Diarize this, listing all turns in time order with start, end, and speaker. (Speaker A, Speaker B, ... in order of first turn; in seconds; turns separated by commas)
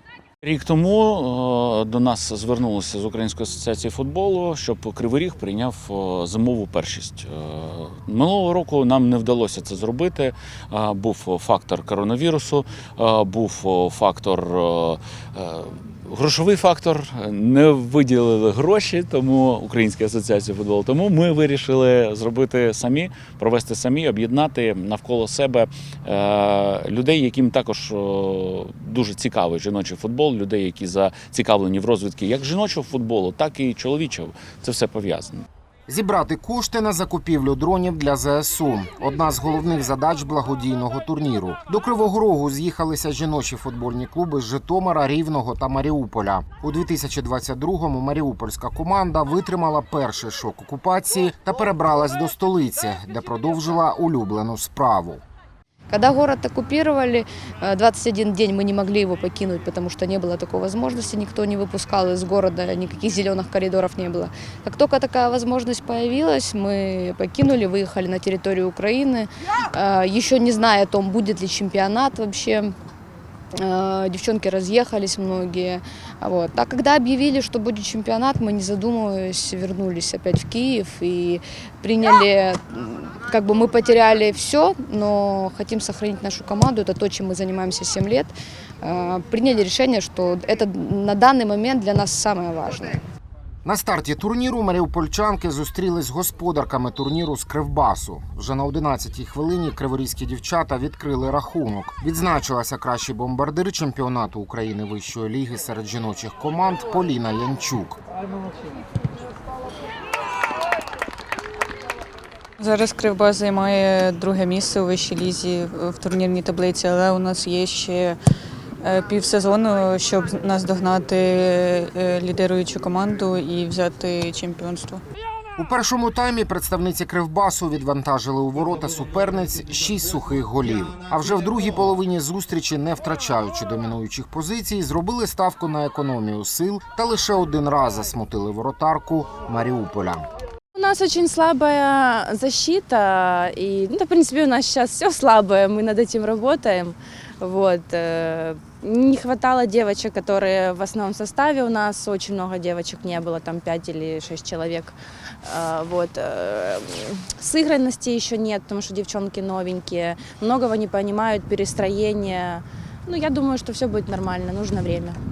Speaker A: 0.4-35.4, Speaker B: 35.9-55.2, Speaker C: 55.9-72.7, Speaker C: 73.6-93.0, Speaker B: 93.6-108.0, Speaker D: 112.6-118.2, Speaker D: 118.8-125.0, Speaker B: 125.6-140.3, Speaker E: 140.8-165.2